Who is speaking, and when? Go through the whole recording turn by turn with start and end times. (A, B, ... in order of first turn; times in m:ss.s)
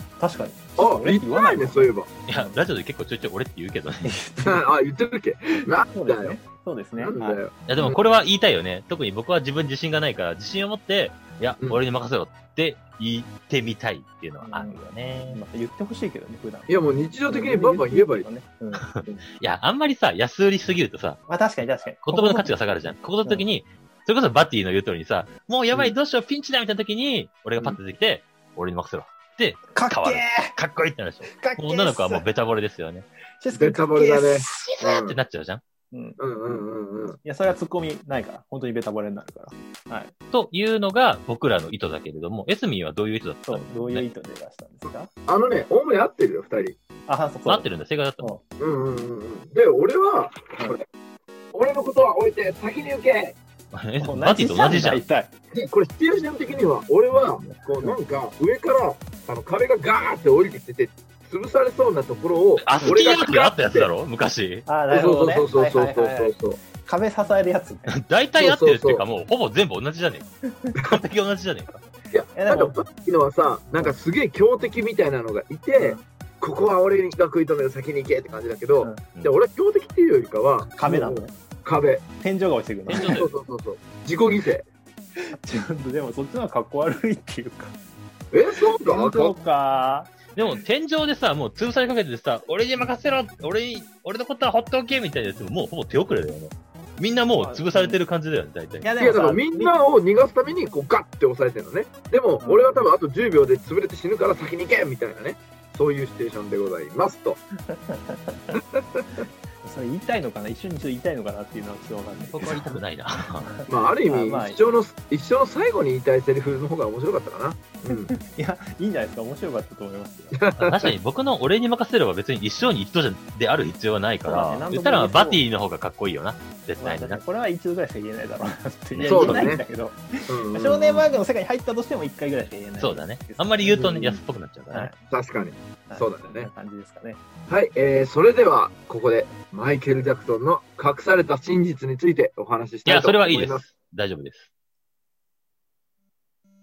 0:00.2-0:02.6 A
0:00.8-0:02.1 B
0:02.3-0:04.1 C
0:04.0-0:04.6 A
0:04.4-0:06.4 B
0:05.9-0:07.4 A
0:07.0-0:08.0 B
0:07.7-0:15.4 C
0:14.4-0:19.2 A
0:16.7-0:18.3 B
0:18.7-0:21.2 C
0:21.3-0:22.5 A
0:22.0-0:33.0 C
0:29.7-0:30.5 A
0:31.2-0:32.3 A
0:33.4-0:34.8 A
0:33.5-0:35.2 B
0:34.8-0:35.6 C
0:35.9-0:36.6 A
0:36.2-0:37.2 B
0:37.2-0:40.1 A
0:40.3-0:44.0 C
0:43.5-0:45.1 A
0:45.3-0:46.8 B
0:47.1-0:47.7 A
0:47.4-0:48.3 C
0:48.6-0:50.8 B
0:51.5-0:53.4 B
0:53.7-0:55.0 C
0:54.0-0:55.3 A
0:55.5-1:03.9 B
1:02.6-1:04.7 C
1:04.6-1:07.9 A
1:04.9-1:06.6 B
1:07.9-1:11.8 C
1:08.4-1:09.0 B
1:10.4-1:10.7 A
1:12.1-1:22.0 B
1:12.3-1:12.7 A
1:15.8-1:16.0 A
1:20.8-1:21.3 A
1:22.2-1:23.2 A
1:22.8-1:23.3 C
1:22.9-1:24.6 B
1:25.2-1:27.7 A
1:28.3-1:29.3 B
1:28.7-1:30.3 A
1:30.3-1:38.9 C
1:37.4-1:38.0 A
1:38.8-1:39.7 A
1:39.0-1:47.4 B
1:42.4-1:42.8 A
1:47.7-1:48.6 A
1:48.5-1:49.2 B
1:49.6-1:52.8 A
1:52.2-1:53.5 C
1:53.4-1:54.6 A
1:53.6-1:58.1 B
1:57.9-2:00.4 A
2:00.3-2:00.9 B
2:00.6-2:07.2 C
2:04.2-2:05.4 A
2:06.8-2:15.0 A
2:08.9-2:09.5 C
2:09.0-2:09.6 B
2:10.3-2:11.1 B
2:12.8-2:14.9 C
2:13.7-2:14.1 B
2:15.1-2:16.5 B
2:15.9-2:17.2 A
2:17.5-2:23.6 B
2:22.8-2:24.5 C